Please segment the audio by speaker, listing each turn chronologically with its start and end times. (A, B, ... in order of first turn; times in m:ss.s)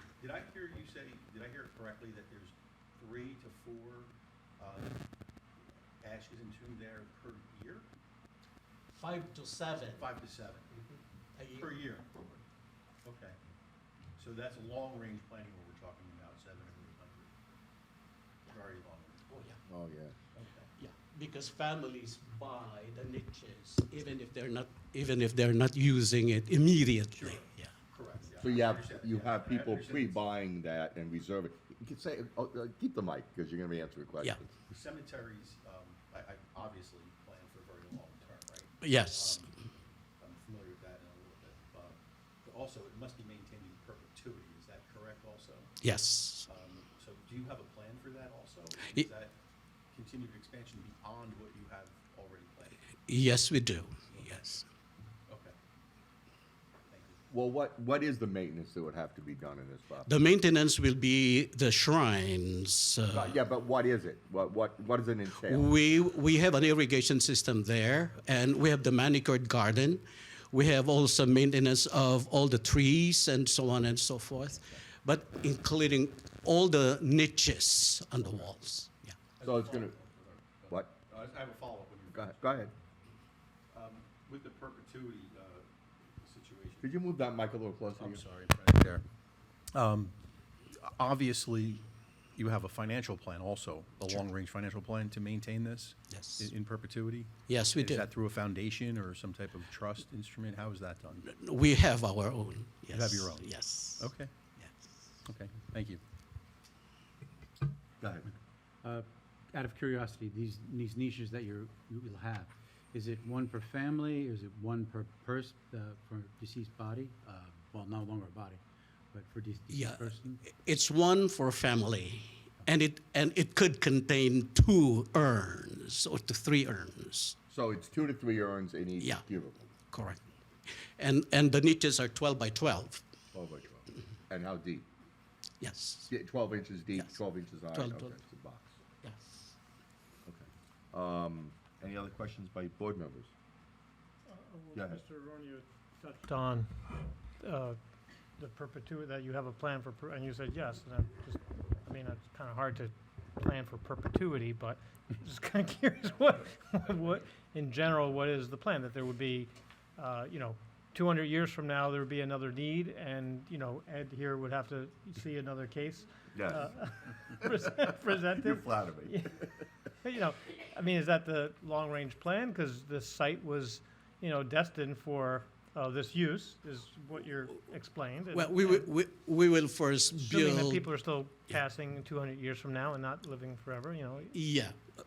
0:00.2-0:05.0 A
0:06.0-0:07.9 A
0:08.9-0:10.0 B
0:09.9-0:10.7 A
0:10.7-0:11.7 B
0:11.5-0:12.3 A
0:13.0-0:13.4 A
0:14.2-0:17.3 A
0:18.4-0:19.2 A
0:19.3-0:19.6 B
0:19.7-0:20.2 C
0:20.3-0:20.7 A
0:20.8-0:27.7 B
0:27.1-0:30.2 A
0:28.4-0:34.5 C
0:34.7-0:39.5 A
0:38.8-0:39.4 B
0:40.2-0:45.7 A
0:45.8-0:46.5 B
0:46.4-0:49.4 A
0:49.9-0:52.8 A
0:53.1-0:54.6 B
0:54.1-0:54.4 A
0:55.3-0:55.6 A
0:56.9-0:57.2 A
0:57.3-1:00.2 C
1:00.0-1:03.4 B
1:03.1-1:05.7 C
1:05.4-1:19.2 B
1:19.4-1:22.4 A
1:19.4-1:19.9 C
1:22.1-1:22.7 C
1:23.7-1:27.0 A
1:26.8-1:28.2 C
1:28.0-1:29.0 A
1:29.7-1:30.1 A
1:30.7-1:31.8 A
1:32.4-1:41.3 A
1:36.1-1:36.5 B
1:37.5-1:38.1 B
1:41.3-1:44.8 B
1:42.9-1:44.3 A
1:45.2-1:46.0 A
1:48.0-1:48.3 C
1:48.8-2:00.4 D
1:59.7-2:07.4 B
2:07.5-2:09.7 C
2:09.9-2:10.2 B
2:11.0-2:13.0 B
2:13.3-2:14.9 C
2:15.6-2:16.1 B
2:16.1-2:18.8 C
2:16.9-2:17.2 B
2:17.7-2:18.2 B
2:19.0-2:19.6 B
2:20.2-2:23.3 C
2:24.3-2:27.8 E
2:24.7-2:25.0 C
2:28.4-2:49.3 E
2:46.3-2:46.7 C
2:47.4-2:49.5 C
2:50.0-2:58.9 E
2:58.3-3:00.9 B
3:00.1-3:04.4 E
3:04.3-3:04.8 B